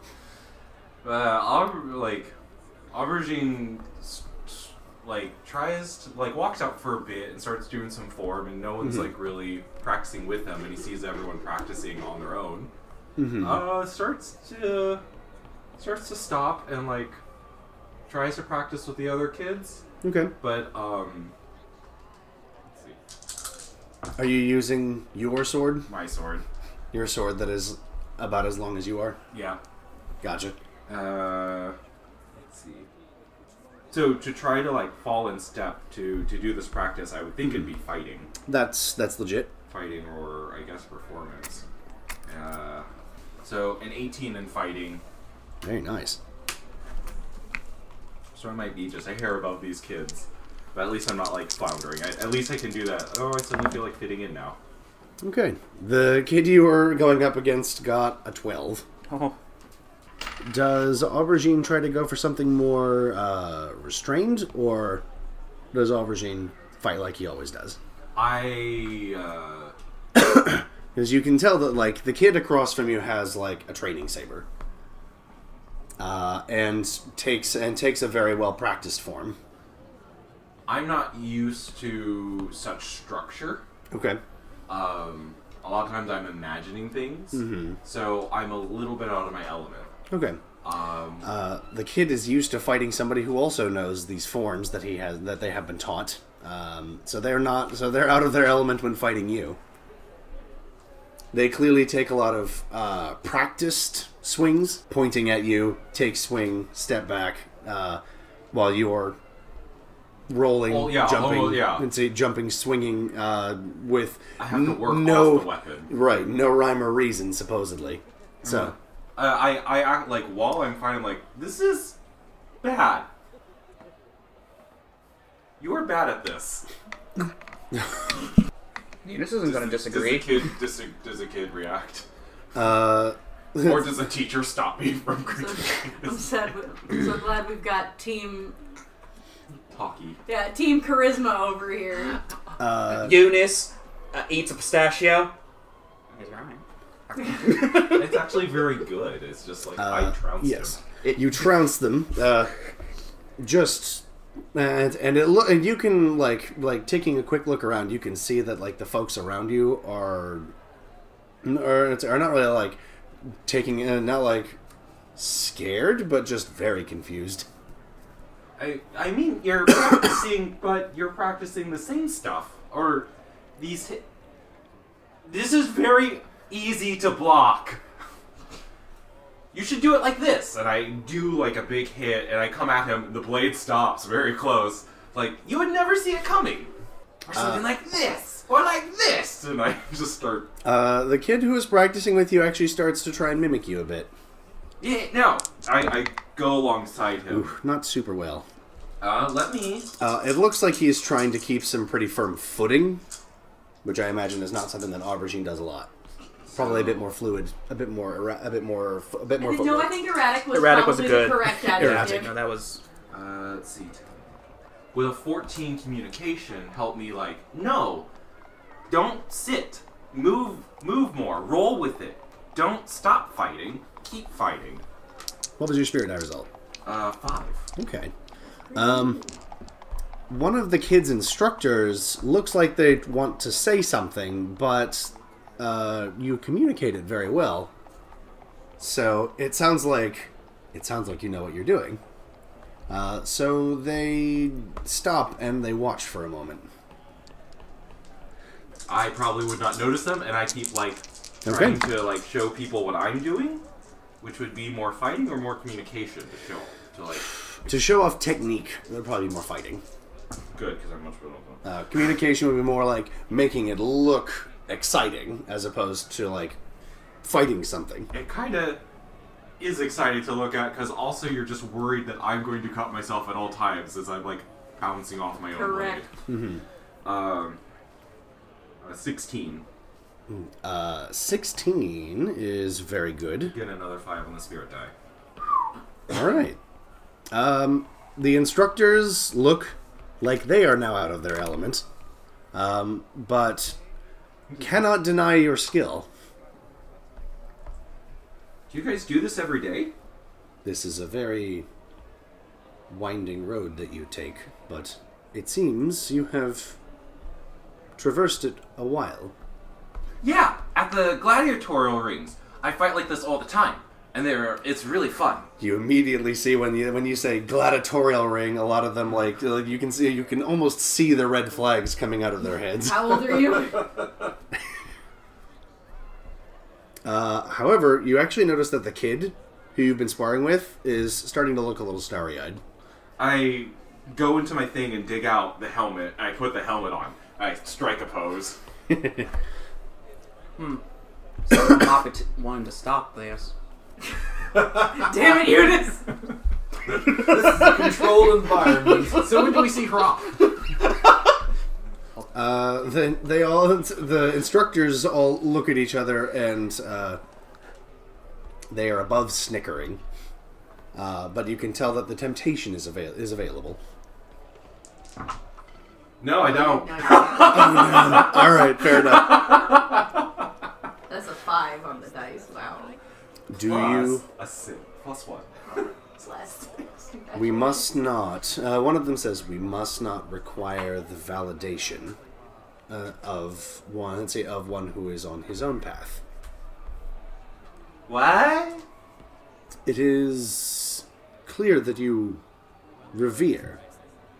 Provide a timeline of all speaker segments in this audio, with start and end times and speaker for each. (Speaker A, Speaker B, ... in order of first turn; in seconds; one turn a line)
Speaker A: 1.0-2.3
Speaker A: 2.9-12.7
Speaker B: 8.8-9.1
Speaker B: 13.2-13.6
Speaker A: 13.4-15.0
Speaker A: 15.8-17.2
Speaker A: 18.1-19.8
Speaker B: 20.0-20.3
Speaker A: 20.4-21.3
Speaker A: 22.7-23.0
Speaker B: 24.1-25.9
Speaker A: 25.9-26.4
Speaker B: 26.9-29.2
Speaker A: 29.3-29.6
Speaker B: 30.2-30.6
Speaker A: 30.9-31.8
Speaker A: 32.3-32.9
Speaker A: 33.9-38.3
Speaker B: 38.5-39.5
Speaker A: 39.7-41.6
Speaker A: 42.3-42.9
Speaker A: 43.4-45.0
Speaker B: 45.6-46.2
Speaker A: 48.3-54.6
Speaker B: 55.2-58.8
Speaker C: 59.1-59.4
Speaker B: 60.4-65.0
Speaker B: 65.7-67.8
Speaker A: 68.1-69.7
Speaker B: 70.1-74.5
Speaker B: 76.0-79.4
Speaker A: 80.7-83.6
Speaker B: 83.9-84.2
Speaker A: 84.7-89.9
Speaker B: 87.3-87.8
Speaker B: 90.1-90.4
Speaker A: 90.6-91.3
Speaker B: 91.2-99.6
Speaker B: 101.3-109.2
Speaker B: 110.3-118.7
Speaker A: 110.7-111.9
Speaker A: 114.4-115.9
Speaker A: 118.4-122.0
Speaker A: 122.6-123.1
Speaker A: 125.6-126.7
Speaker C: 129.0-130.5
Speaker A: 129.4-132.0
Speaker B: 132.5-133.9
Speaker A: 133.6-136.3
Speaker D: 135.4-138.6
Speaker A: 139.7-140.2
Speaker D: 140.2-142.2
Speaker B: 142.6-143.2
Speaker C: 142.9-145.3
Speaker C: 146.1-148.0
Speaker A: 147.8-150.8
Speaker B: 149.8-152.5
Speaker C: 151.0-151.4
Speaker B: 153.4-160.5
Speaker B: 161.4-162.8
Speaker B: 163.4-164.6
Speaker B: 165.2-167.5
Speaker A: 168.6-174.1
Speaker A: 175.2-177.8
Speaker A: 179.5-186.7
Speaker A: 187.2-190.5
Speaker B: 187.3-187.6
Speaker B: 190.6-194.1
Speaker A: 194.8-197.5
Speaker B: 197.3-198.4
Speaker A: 199.0-199.9
Speaker B: 200.0-203.0
Speaker B: 203.8-205.9
Speaker A: 206.5-207.0
Speaker B: 206.5-210.0
Speaker D: 209.4-212.3
Speaker C: 210.5-212.8
Speaker B: 211.8-212.1
Speaker A: 213.1-214.3
Speaker A: 214.9-218.1
Speaker A: 218.9-224.8
Speaker B: 225.6-226.5
Speaker A: 226.8-227.7
Speaker B: 227.8-228.1
Speaker D: 228.7-229.3
Speaker B: 228.7-229.2
Speaker B: 230.3-237.7
Speaker B: 238.8-242.0
Speaker B: 242.9-246.7
Speaker A: 248.9-253.6
Speaker B: 251.4-251.8
Speaker A: 254.2-257.3
Speaker B: 257.6-259.8
Speaker A: 260.5-261.6
Speaker B: 261.6-266.6
Speaker B: 267.2-268.1
Speaker A: 268.1-268.8
Speaker A: 269.6-276.1
Speaker D: 275.5-276.0
Speaker B: 276.3-276.6
Speaker A: 277.0-277.6
Speaker A: 278.8-279.6
Speaker B: 280.3-283.6
Speaker A: 283.5-284.9
Speaker B: 286.1-286.6
Speaker B: 287.3-291.8
Speaker B: 292.5-293.8
Speaker B: 294.6-296.1
Speaker A: 298.7-299.9
Speaker B: 300.6-301.7
Speaker B: 302.9-306.8
Speaker B: 308.0-309.3
Speaker A: 310.2-315.5
Speaker B: 315.6-323.6
Speaker D: 322.7-324.1
Speaker B: 327.0-332.6
Speaker A: 333.2-338.6
Speaker B: 338.9-339.2
Speaker C: 340.6-340.8
Speaker C: 341.4-343.5
Speaker D: 344.6-346.0
Speaker E: 347.1-349.6
Speaker A: 349.2-350.2
Speaker B: 352.3-357.2
Speaker B: 358.7-360.0
Speaker B: 360.9-363.8
Speaker A: 366.2-368.3
Speaker D: 366.4-368.3
Speaker B: 367.4-369.5
Speaker D: 371.1-372.9
Speaker B: 373.5-374.2
Speaker A: 373.6-375.5
Speaker D: 375.7-377.9
Speaker B: 377.3-382.2
Speaker B: 382.9-386.2
Speaker A: 388.1-388.8
Speaker B: 389.9-392.4
Speaker B: 393.1-393.8